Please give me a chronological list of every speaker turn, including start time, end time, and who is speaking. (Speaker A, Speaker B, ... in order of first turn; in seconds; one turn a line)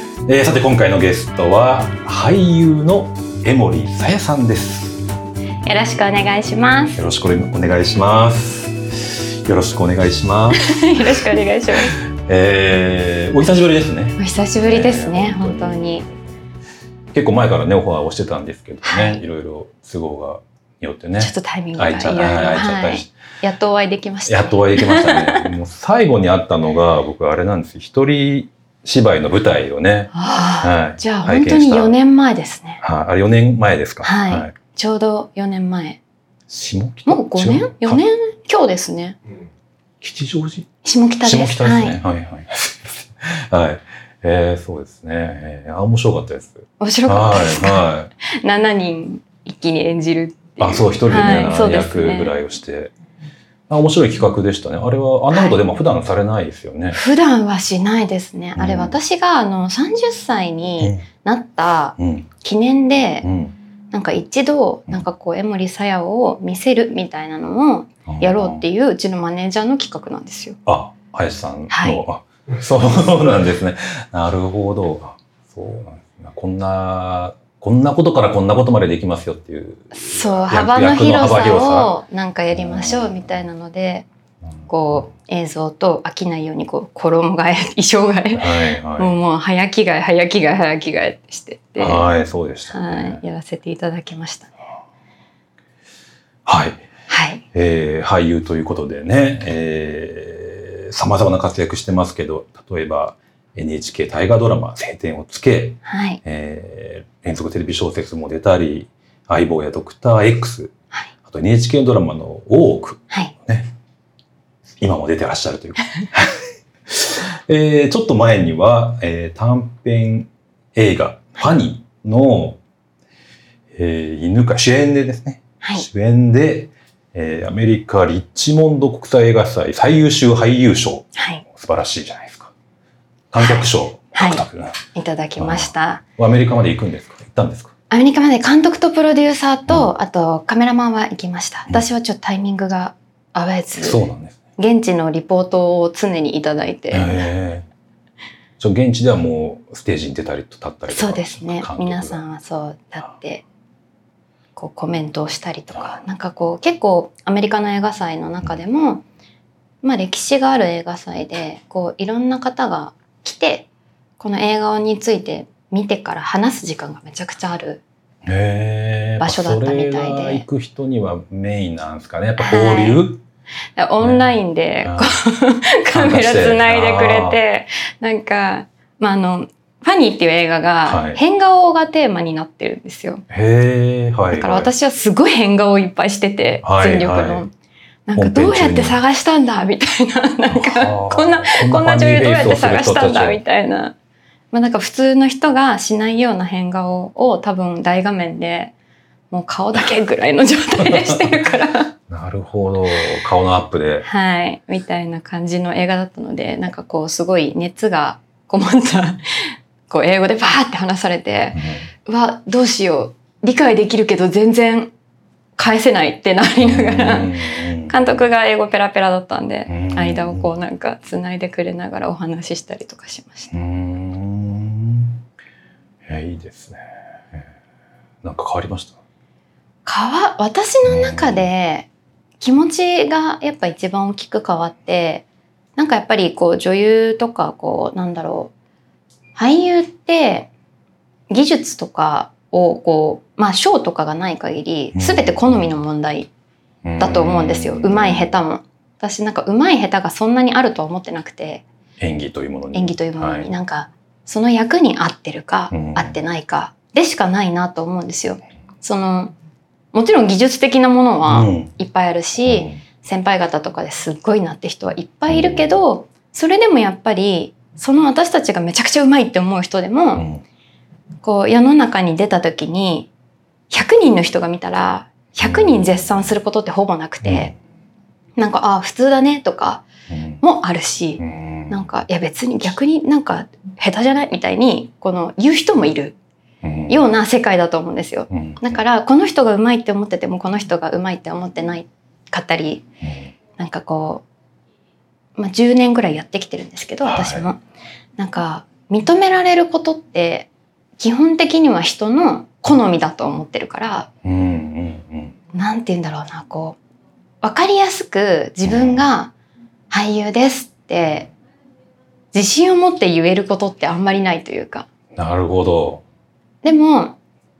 Speaker A: 0.3-5.0
Speaker B: 5.6-7.0
Speaker A: 7.0-11.2
Speaker B: 10.5-11.9
Speaker A: 12.1-16.4
Speaker B: 14.2-16.0
Speaker A: 17.1-23.1
Speaker B: 18.8-19.2
Speaker B: 21.2-25.5
Speaker A: 24.3-31.9
Speaker B: 30.1-32.8
Speaker A: 32.8-34.5
Speaker B: 34.0-36.0
Speaker A: 36.5-38.0
Speaker B: 37.1-39.2
Speaker A: 40.0-40.7
Speaker B: 40.8-42.0
Speaker A: 41.2-48.1
Speaker B: 46.8-52.3
Speaker A: 50.6-52.9
Speaker A: 53.7-57.0
Speaker B: 55.3-55.6
Speaker B: 56.9-63.3
Speaker A: 58.5-59.0
Speaker A: 60.8-61.0
Speaker A: 62.0-62.3
Speaker A: 63.2-63.5
Speaker B: 63.9-70.6
Speaker A: 68.0-68.6
Speaker A: 70.7-81.9
Speaker B: 71.7-72.0
Speaker B: 79.9-84.0
Speaker A: 82.5-83.1
Speaker B: 84.7-92.1
Speaker A: 88.3-89.1
Speaker A: 91.8-93.2
Speaker B: 92.7-94.5
Speaker A: 96.5-96.8
Speaker B: 97.1-97.4
Speaker A: 97.5-110.7
Speaker B: 105.8-106.2
Speaker A: 111.2-113.7
Speaker A: 114.8-122.6
Speaker A: 123.7-132.5
Speaker B: 131.2-131.4
Speaker A: 133.3-134.8
Speaker B: 133.4-136.0
Speaker A: 135.4-137.7
Speaker B: 137.9-144.0
Speaker A: 143.8-144.4
Speaker B: 144.6-147.2
Speaker A: 146.9-147.7
Speaker A: 148.6-152.2
Speaker B: 150.9-153.4
Speaker B: 154.6-159.0
Speaker B: 159.8-163.7
Speaker B: 164.2-167.8
Speaker A: 168.2-173.2
Speaker B: 169.2-170.4
Speaker B: 172.4-173.0
Speaker B: 173.8-183.2
Speaker A: 174.0-174.3
Speaker A: 174.8-175.1
Speaker A: 175.9-177.4
Speaker A: 180.8-181.2
Speaker A: 183.3-184.7
Speaker B: 184.3-187.5
Speaker A: 186.6-187.4
Speaker B: 188.1-193.9
Speaker A: 188.2-189.0
Speaker A: 190.5-193.4
Speaker B: 194.5-198.7
Speaker B: 199.3-201.9
Speaker A: 200.8-201.3
Speaker A: 202.1-204.1
Speaker B: 204.0-214.9
Speaker A: 211.5-211.9
Speaker B: 215.6-223.5
Speaker A: 216.6-218.0
Speaker A: 219.7-220.5
Speaker A: 223.5-225.2
Speaker A: 226.1-227.4
Speaker A: 228.2-229.0
Speaker B: 229.8-231.9
Speaker A: 230.8-231.5
Speaker B: 232.4-235.2
Speaker B: 235.8-238.5
Speaker B: 239.3-240.5
Speaker B: 241.3-246.3
Speaker A: 244.9-245.7
Speaker A: 246.8-248.4
Speaker B: 247.0-251.6
Speaker A: 252.0-253.5
Speaker B: 252.7-259.3
Speaker A: 255.7-256.1
Speaker B: 259.9-270.2
Speaker A: 261.3-261.7
Speaker A: 262.4-262.8
Speaker A: 265.3-265.8
Speaker A: 270.1-270.4
Speaker B: 271.2-273.1
Speaker B: 273.7-277.5
Speaker A: 275.4-276.1
Speaker A: 277.2-277.5
Speaker B: 278.4-279.9
Speaker A: 280.1-280.4
Speaker B: 280.4-286.1
Speaker A: 281.2-281.8
Speaker A: 286.6-287.1
Speaker B: 286.9-292.8
Speaker A: 288.3-288.8
Speaker A: 293.0-293.3
Speaker B: 293.6-294.2
Speaker B: 295.4-297.6
Speaker A: 297.0-297.5
Speaker B: 298.2-304.1
Speaker A: 304.2-305.4
Speaker B: 305.5-306.8
Speaker B: 307.4-309.3
Speaker A: 308.6-309.1
Speaker B: 309.9-311.3
Speaker B: 312.3-314.9
Speaker A: 315.1-316.0
Speaker B: 316.6-317.2